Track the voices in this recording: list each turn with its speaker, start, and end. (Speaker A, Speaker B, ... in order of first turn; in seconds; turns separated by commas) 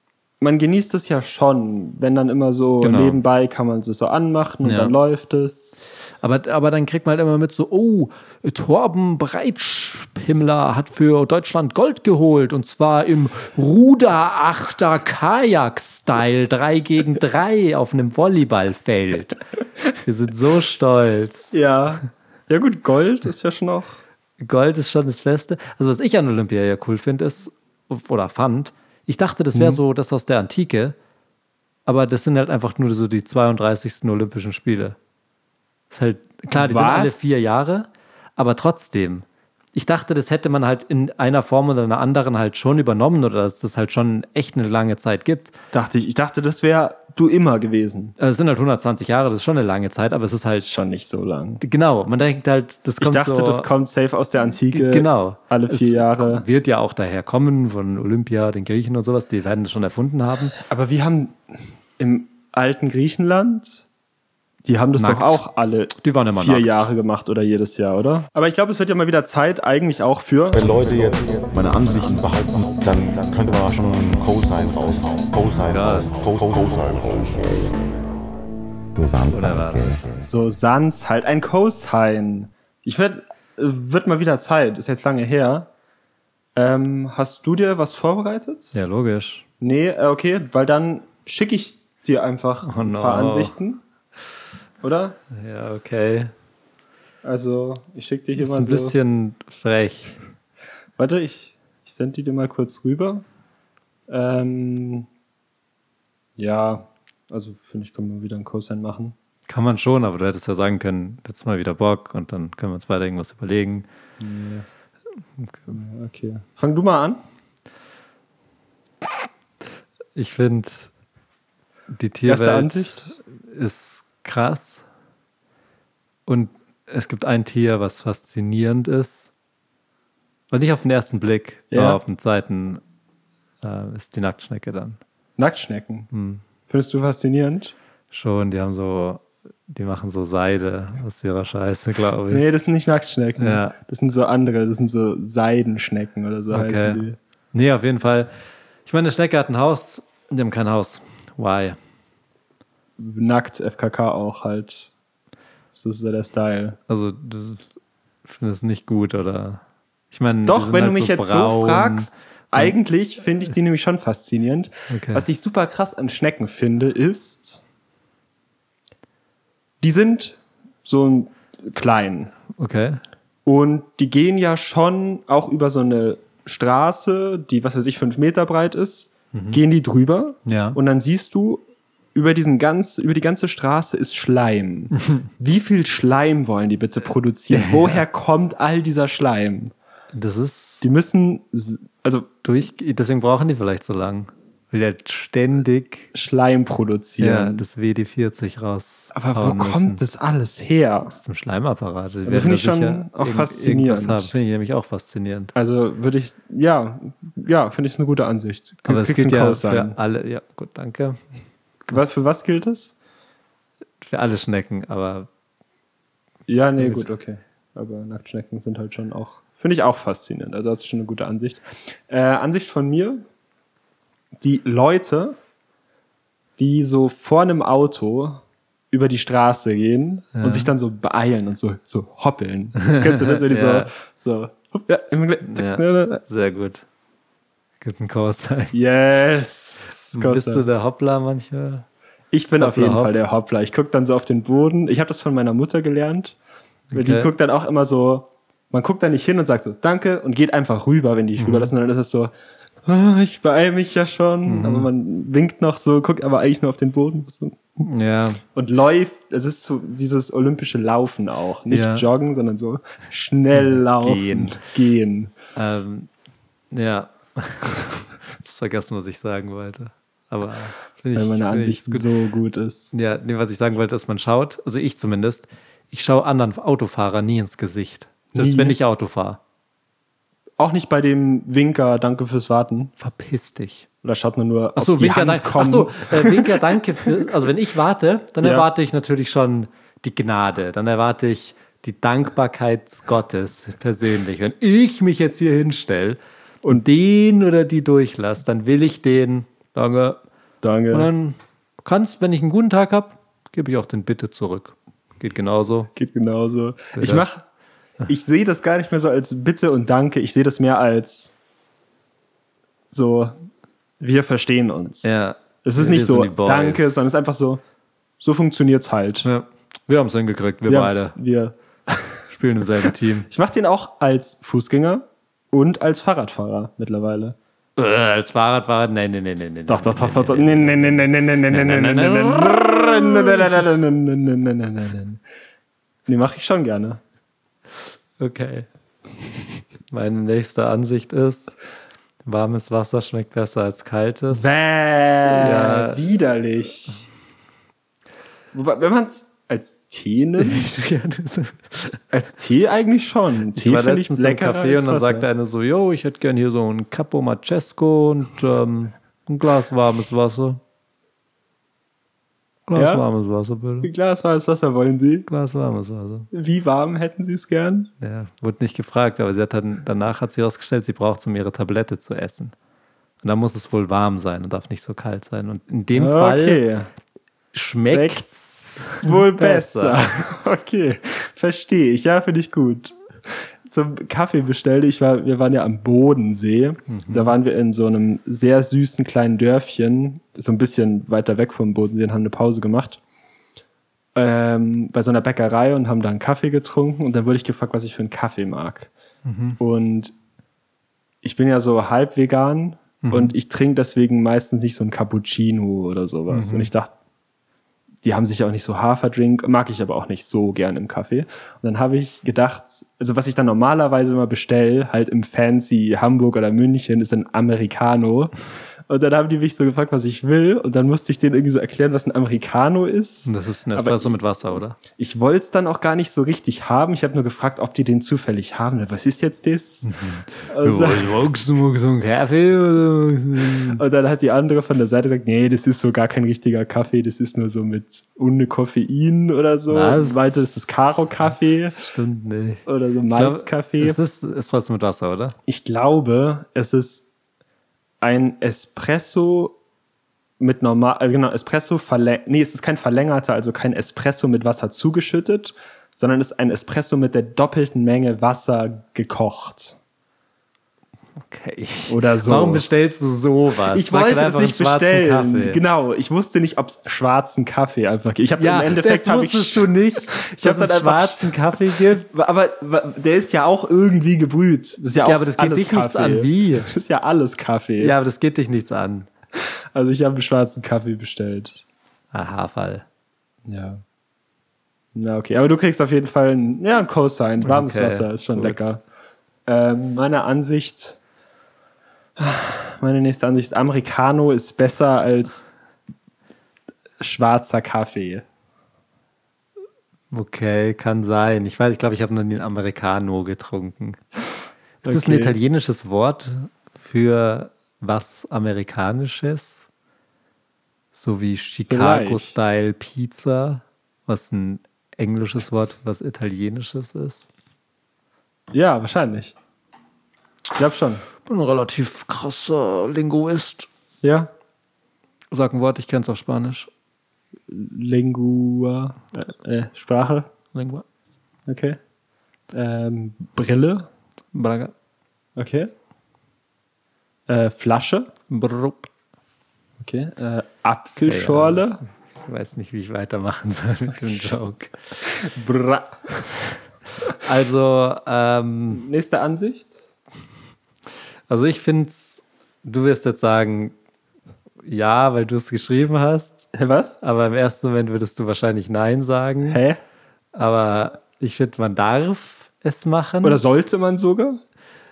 Speaker A: 0.4-5.9, Speaker B: 2.8-3.2, Speaker B: 4.6-4.9, Speaker B: 6.2-19.4, Speaker B: 20.0-21.6, Speaker A: 21.5-24.0, Speaker B: 24.4-30.9, Speaker A: 29.5-29.8, Speaker B: 31.9-35.0, Speaker B: 35.9-45.5, Speaker A: 36.5-37.5, Speaker A: 45.7-48.1, Speaker B: 48.2-50.7, Speaker A: 50.6-51.6, Speaker B: 51.6-53.7, Speaker A: 53.0-56.5, Speaker B: 54.7-60.5, Speaker A: 60.5-61.4, Speaker A: 62.0-63.9, Speaker A: 64.6-70.6, Speaker B: 65.0-65.4, Speaker B: 66.0-66.9, Speaker C: 70.5-77.7, Speaker B: 75.7-76.1, Speaker C: 79.0-80.0, Speaker B: 79.3-80.0, Speaker A: 80.3-85.7, Speaker A: 86.5-88.7, Speaker B: 88.7-89.5, Speaker A: 89.6-93.8, Speaker B: 92.6-93.5, Speaker A: 94.8-95.2, Speaker B: 95.3-96.3, Speaker A: 97.2-99.0, Speaker B: 98.3-100.2, Speaker A: 101.0-103.2, Speaker A: 104.1-105.1, Speaker A: 106.4-109.1, Speaker B: 109.5-113.8, Speaker A: 114.2-114.7, Speaker B: 115.4-115.6, Speaker A: 115.7-117.2, Speaker B: 120.2-120.9, Speaker B: 121.9-124.8, Speaker A: 122.2-123.1, Speaker B: 126.3-129.3, Speaker B: 130.5-132.8, Speaker A: 131.7-132.0, Speaker B: 133.6-135.0, Speaker A: 135.4-136.1, Speaker B: 136.1-136.4, Speaker A: 136.7-137.7, Speaker B: 138.1-142.4, Speaker A: 142.3-147.2, Speaker B: 143.4-143.7, Speaker B: 146.5-148.3, Speaker B: 148.8-151.8, Speaker A: 153.0-154.9, Speaker A: 155.7-156.8, Speaker B: 156.9-157.7, Speaker B: 158.2-162.7, Speaker A: 160.4-167.6, Speaker B: 164.9-165.2, Speaker A: 169.8-172.3, Speaker B: 172.5-173.0, Speaker A: 173.4-189.7, Speaker B: 179.3-179.6, Speaker B: 180.4-180.8, Speaker B: 185.0-185.2, Speaker B: 187.5-188.0, Speaker B: 190.1-190.8, Speaker A: 190.8-192.3, Speaker B: 192.4-196.1, Speaker A: 196.1-197.6, Speaker B: 197.2-200.0, Speaker A: 199.1-201.1, Speaker B: 201.1-205.5, Speaker A: 202.2-204.3, Speaker A: 205.5-209.9, Speaker B: 208.8-211.2, Speaker B: 211.8-212.1, Speaker A: 211.9-212.9, Speaker B: 214.0-215.3, Speaker A: 216.5-223.2, Speaker B: 216.8-217.1, Speaker A: 224.4-225.4, Speaker A: 226.6-236.2, Speaker B: 230.3-230.7, Speaker B: 232.8-233.9, Speaker B: 235.4-236.8, Speaker B: 237.8-238.8, Speaker A: 238.7-240.7, Speaker B: 240.1-241.8, Speaker A: 242.3-246.4, Speaker B: 242.6-243.2, Speaker B: 246.9-247.3, Speaker A: 246.9-252.3, Speaker B: 251.4-251.7, Speaker A: 252.8-257.6, Speaker B: 254.4-254.9, Speaker B: 257.8-258.4, Speaker A: 258.5-265.3, Speaker B: 261.7-262.1, Speaker B: 263.6-264.6, Speaker B: 265.5-266.1, Speaker B: 266.7-272.1, Speaker A: 271.1-272.9, Speaker B: 272.9-279.4, Speaker A: 278.3-278.8, Speaker A: 280.6-282.9, Speaker B: 283.0-283.9, Speaker A: 284.0-287.2, Speaker B: 284.8-300.2, Speaker A: 288.4-288.7, Speaker A: 300.6-301.1, Speaker B: 300.9-305.9, Speaker A: 305.9-307.4, Speaker B: 306.9-307.3, Speaker A: 308.1-311.3, Speaker A: 312.9-313.4, Speaker A: 314.0-317.6, Speaker B: 315.0-317.1, Speaker A: 318.2-319.3, Speaker B: 319.2-321.1, Speaker A: 320.7-322.2, Speaker B: 322.3-323.3, Speaker A: 323.3-327.4, Speaker B: 327.8-333.6, Speaker A: 329.7-335.2, Speaker A: 336.1-337.0, Speaker B: 338.2-338.7, Speaker B: 339.9-341.5, Speaker B: 342.2-344.5, Speaker A: 344.3-347.0, Speaker B: 345.2-346.0, Speaker A: 348.5-350.7, Speaker B: 350.4-352.0, Speaker A: 352.1-355.3, Speaker B: 353.5-360.6, Speaker B: 362.7-363.9, Speaker A: 362.7-363.0, Speaker A: 363.8-365.3, Speaker B: 365.3-366.3, Speaker A: 366.3-367.9, Speaker B: 368.0-372.5, Speaker B: 373.2-376.6, Speaker A: 375.9-376.9, Speaker B: 377.5-380.1, Speaker A: 377.9-378.3, Speaker A: 378.9-393.0, Speaker B: 386.9-387.3, Speaker A: 394.1-398.9, Speaker B: 399.2-399.6, Speaker A: 399.6-400.1, Speaker A: 401.2-406.9, Speaker B: 403.0-403.3, Speaker B: 406.3-406.7, Speaker A: 408.0-418.3, Speaker A: 418.9-424.1, Speaker B: 423.2-424.8, Speaker A: 424.8-429.9, Speaker B: 429.8-433.8, Speaker A: 430.5-431.1, Speaker A: 433.7-441.8, Speaker B: 439.7-442.6, Speaker A: 442.6-444.0, Speaker B: 443.1-445.4, Speaker A: 445.5-447.1, Speaker A: 448.0-449.6, Speaker A: 450.4-459.8, Speaker B: 461.2-465.6, Speaker A: 461.9-462.6, Speaker A: 463.7-471.3, Speaker B: 468.4-472.1, Speaker A: 472.1-477.9, Speaker B: 475.0-476.7, Speaker B: 477.8-479.1, Speaker A: 479.7-481.6, Speaker B: 482.1-482.8, Speaker A: 483.4-483.8, Speaker A: 484.9-488.8, Speaker B: 487.4-488.6, Speaker A: 489.4-491.0, Speaker A: 492.2-495.4, Speaker A: 497.0-498.2, Speaker B: 500.1-504.0, Speaker B: 504.8-509.7, Speaker A: 504.8-505.4, Speaker B: 510.9-517.3, Speaker A: 511.7-512.5, Speaker A: 518.5-519.3, Speaker A: 520.5-521.0, Speaker B: 521.2-523.7, Speaker A: 524.0-524.3, Speaker B: 525.3-526.7, Speaker A: 527.5-530.3, Speaker B: 530.5-530.8, Speaker A: 531.5-531.8, Speaker A: 532.5-533.9, Speaker B: 534.3-534.7, Speaker A: 535.4-535.7, Speaker A: 537.3-538.1, Speaker B: 538.3-538.9, Speaker A: 539.8-541.8, Speaker B: 541.0-544.8, Speaker A: 545.1-546.0, Speaker B: 547.1-548.8, Speaker A: 548.7-549.9, Speaker B: 551.3-553.7, Speaker B: 554.6-556.5, Speaker A: 556.5-557.0, Speaker B: 557.0-559.6, Speaker A: 559.5-559.8, Speaker B: 560.3-563.4, Speaker A: 563.2-564.4